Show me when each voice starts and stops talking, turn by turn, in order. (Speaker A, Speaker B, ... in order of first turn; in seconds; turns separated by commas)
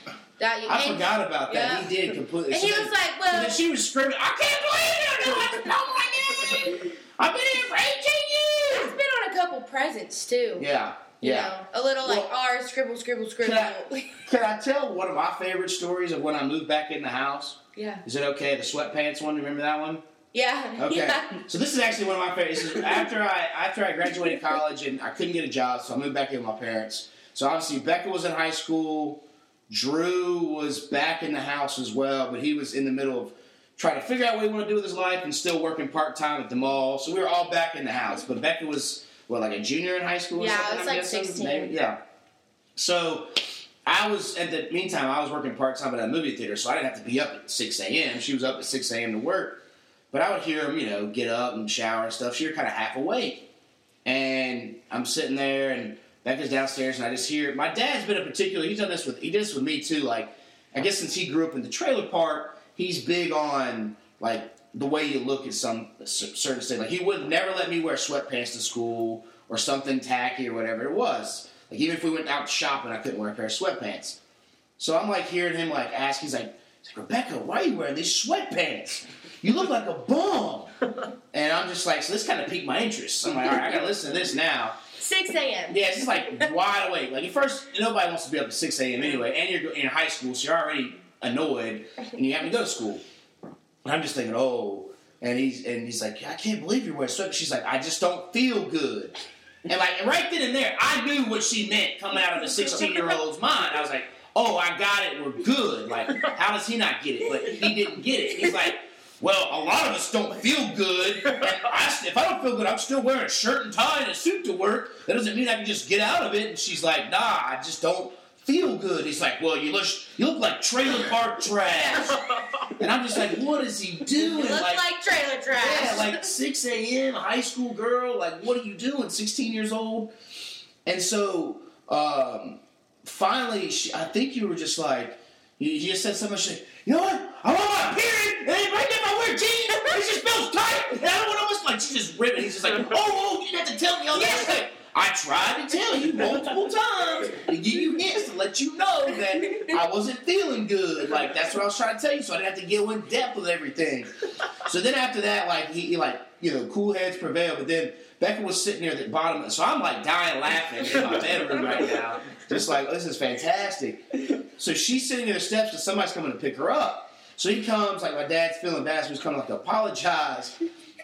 Speaker A: 0.4-2.0, Speaker B: 0.7-9.0, Speaker A: 2.5-3.6, Speaker A: 5.3-5.7, Speaker A: 8.7-10.7, Speaker B: 10.6-12.3, Speaker A: 11.2-14.2, Speaker B: 13.4-20.0, Speaker A: 17.8-18.0, Speaker A: 20.3-21.4, Speaker B: 20.8-42.0, Speaker A: 40.4-41.7, Speaker B: 42.8-53.5, Speaker B: 54.0-74.2, Speaker B: 74.8-80.7, Speaker B: 81.3-84.8, Speaker A: 85.0-86.5, Speaker B: 85.7-93.0, Speaker B: 93.8-99.2, Speaker B: 99.7-122.2, Speaker A: 121.9-122.1, Speaker B: 122.8-124.8, Speaker A: 124.2-126.3, Speaker B: 125.5-130.1, Speaker B: 130.8-164.0, Speaker A: 144.2-144.6, Speaker B: 164.6-170.6